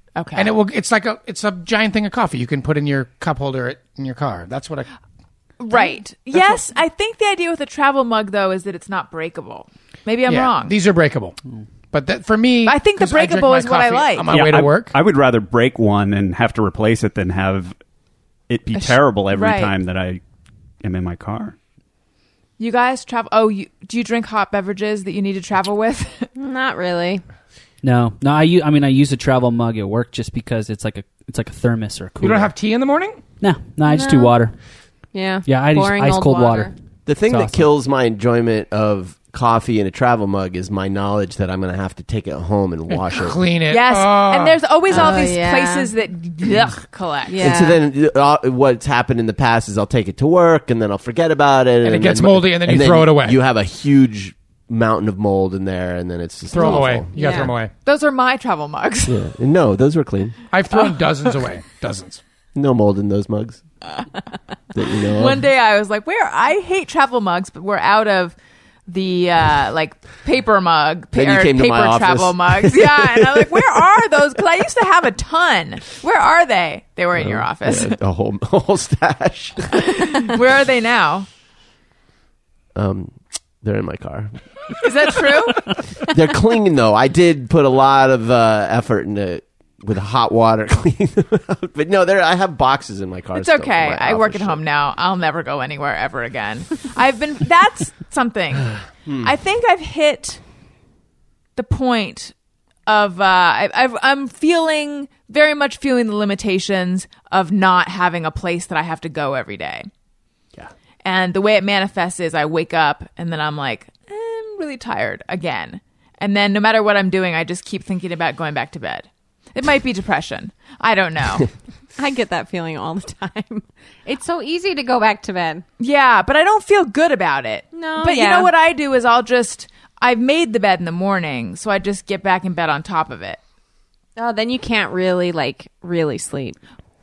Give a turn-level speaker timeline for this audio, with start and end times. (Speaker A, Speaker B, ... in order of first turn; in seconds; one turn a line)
Speaker A: 0.1-0.5
Speaker B: 0.3-4.9
Speaker A: 5.6-10.7
Speaker B: 5.7-6.5
Speaker B: 10.3-11.4
Speaker B: 11.9-14.9
Speaker A: 12.7-14.3
Speaker C: 14.3-17.8
Speaker C: 18.5-20.2
Speaker A: 18.7-19.7
Speaker C: 20.8-21.6
Speaker A: 22.6-26.3
Speaker D: 26.4-27.2
Speaker E: 27.8-32.5
Speaker B: 32.2-33.2
Speaker E: 33.4-34.5
Speaker D: 33.9-34.4
Speaker D: 35.1-36.7
Speaker E: 35.4-36.7
Speaker F: 37.0-43.4
Speaker E: 37.2-37.7
Speaker B: 43.1-44.6
Speaker A: 43.7-47.5
Speaker D: 44.9-45.9
Speaker D: 47.3-47.8
Speaker F: 47.4-57.1
Speaker B: 51.8-53.4
Speaker B: 56.5-57.7
Speaker D: 57.1-57.5
Speaker A: 57.8-59.2
Speaker F: 59.1-60.4
Speaker B: 60.5-62.2
Speaker F: 62.5-63.6
Speaker F: 64.7-65.5
Speaker A: 65.0-68.3
Speaker A: 68.9-78.0
Speaker F: 71.1-73.6
Speaker F: 77.2-79.8
Speaker A: 79.7-81.3
Speaker F: 82.7-84.3
Speaker A: 84.8-85.7
Speaker F: 86.1-94.6
Speaker A: 93.3-100.4
Speaker F: 99.0-99.3
Speaker A: 101.5-102.3
Speaker A: 102.9-109.9
Speaker A: 111.0-121.5
Speaker D: 122.0-125.6
Speaker A: 125.8-133.4
Speaker D: 127.7-128.5
Speaker D: 134.2-136.6